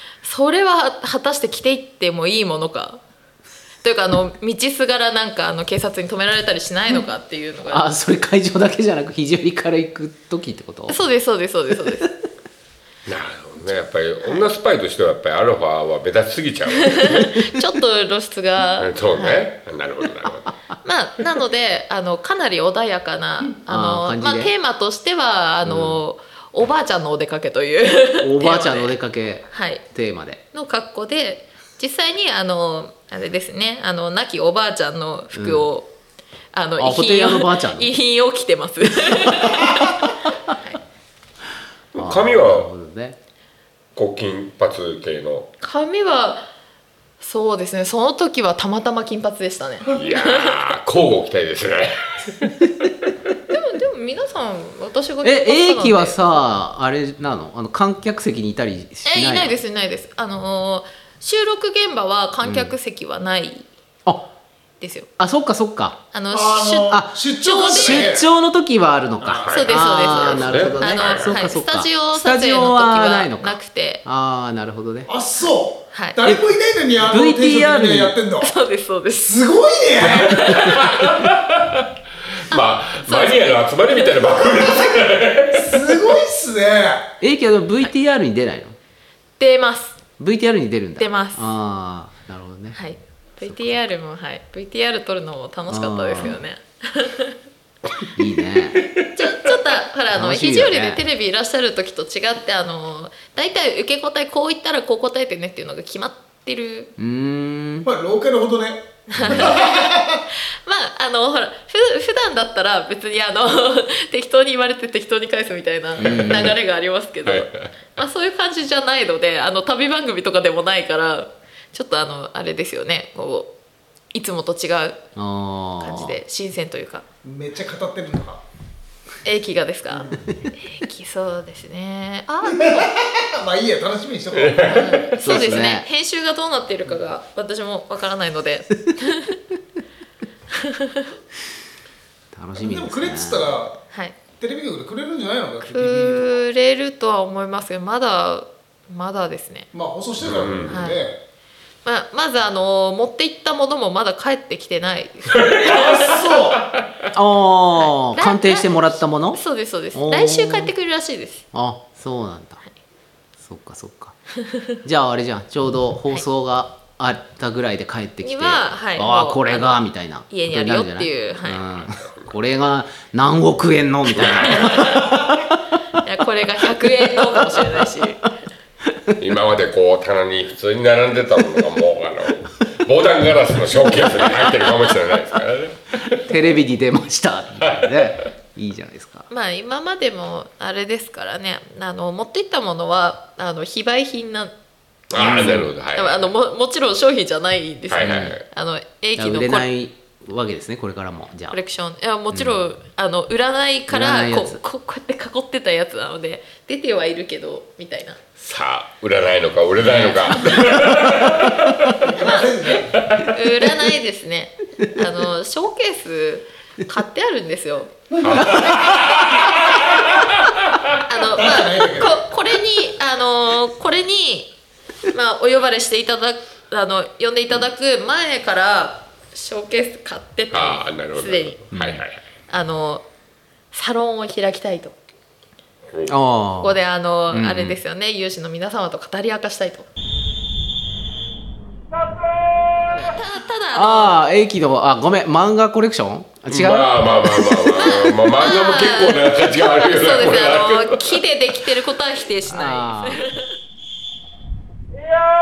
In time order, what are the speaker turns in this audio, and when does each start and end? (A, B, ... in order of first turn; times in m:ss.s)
0:00.2-0:03.0 A
0:03.8-0:07.8 A
0:07.7-0:11.0 B
0:10.9-0:12.1 A
0:13.0-0:17.3 C
0:16.8-0:19.4 A
0:18.8-0:20.5 C
0:20.8-0:28.9 A
0:23.7-0:24.5 B
0:25.6-0:26.0 B
0:28.2-0:30.4 B
0:29.5-0:29.8 A
0:30.5-0:35.9 A
0:35.3-0:35.7 B
0:36.5-0:40.8 A
0:36.8-0:37.9 B
0:39.3-0:39.9 B
0:41.9-0:42.7 C
0:42.0-0:43.2 B
0:43.9-0:45.5 C
0:45.6-0:46.5 A
0:47.2-0:50.6 A
0:49.9-0:52.5 C
0:53.5-0:56.2 A
0:55.2-0:59.6 B
0:59.0-1:03.7 A
1:02.4-1:02.7 B
1:04.8-1:05.1 A
1:05.2-1:06.0 B
1:06.1-1:08.1 A
1:06.3-1:08.2 D
1:07.6-1:15.1 B
1:09.2-1:09.6 D
1:09.4-1:11.4 C
1:09.5-1:14.0 A
1:15.0-1:18.5 D
1:15.9-1:16.2 A
1:17.0-1:18.1 B
1:18.4-1:19.5 A
1:19.2-1:20.7 D
1:20.0-1:20.8 A
1:20.5-1:21.8 C
1:22.5-1:23.5 A
1:22.5-1:26.0 C
1:25.5-1:27.1 D
1:27.2-1:28.7 B
1:29.4-1:30.0 A
1:30.2-1:32.8 B
1:31.0-1:31.5 A
1:32.7-1:37.4 A
1:33.4-1:33.8 B
1:35.7-1:36.4 B
1:38.2-1:38.8 B
1:39.1-1:46.9 A
1:40.1-1:41.0 B
1:47.0-1:47.9 B
1:47.8-1:50.2 D
1:49.1-1:50.0 A
1:49.2-1:49.5 B
1:50.6-2:03.5 A
1:56.0-1:56.6 B
1:56.1-1:56.4 C
1:57.2-1:57.7 C
2:04.1-2:05.0 A
2:05.2-2:06.2 B
2:05.8-2:07.0 A
2:07.2-2:08.4 D
2:09.2-2:12.9 A
2:12.4-2:15.0 D
2:14.3-2:15.0 C
2:14.7-2:19.4 A
2:15.2-2:15.9 B
2:20.5-2:21.1 A
2:22.3-2:23.6 B
2:22.6-2:23.8 D
2:24.4-2:26.4 D
2:25.6-2:29.7 A
2:29.7-2:31.2 D
2:30.2-2:30.8 C
2:30.7-2:31.1 A
2:31.8-2:36.2 A
2:35.6-2:36.6 D
2:37.1-2:39.4 B
2:37.8-2:41.4 A
2:39.9-2:40.7 B
2:41.5-2:42.6 B
2:43.4-2:44.1 B
2:44.8-2:55.3 B
2:48.2-2:49.8 A
2:50.3-2:51.6 A
2:51.6-2:52.3 C
2:54.1-2:55.0 C
2:54.5-2:55.0 A
2:56.0-2:58.3 A
2:57.4-2:57.9 B
2:58.8-2:59.2 B
2:59.2-3:06.3 C
3:06.2-3:09.3 B
3:07.6-3:08.0 C
3:09.3-3:14.5 A
3:15.1-3:16.3 C
3:15.1-3:15.7 B
3:15.9-3:19.7 A
3:17.9-3:18.4 C
3:18.0-3:18.4 B
3:19.2-3:21.6 B
3:21.5-3:28.2 A
3:23.9-3:24.6 B
3:28.4-3:31.9 C
3:29.8-3:31.2 B
3:32.0-3:33.0 D
3:32.9-3:33.3 C
3:33.2-3:37.9 A
3:38.2-3:40.5 C
3:41.1-3:44.5 A
3:41.1-3:42.3 D
3:45.1-3:51.6 A
3:50.5-3:52.2 C
3:51.7-3:52.0 B
3:52.5-3:53.0 A
3:53.7-3:55.0 A
3:56.1-3:57.8 B
3:56.6-3:59.8 A
4:03.0-4:04.2 A
4:03.7-4:08.1 B
4:06.5-4:11.2 C
4:07.8-4:13.4 A
4:12.5-4:13.3 B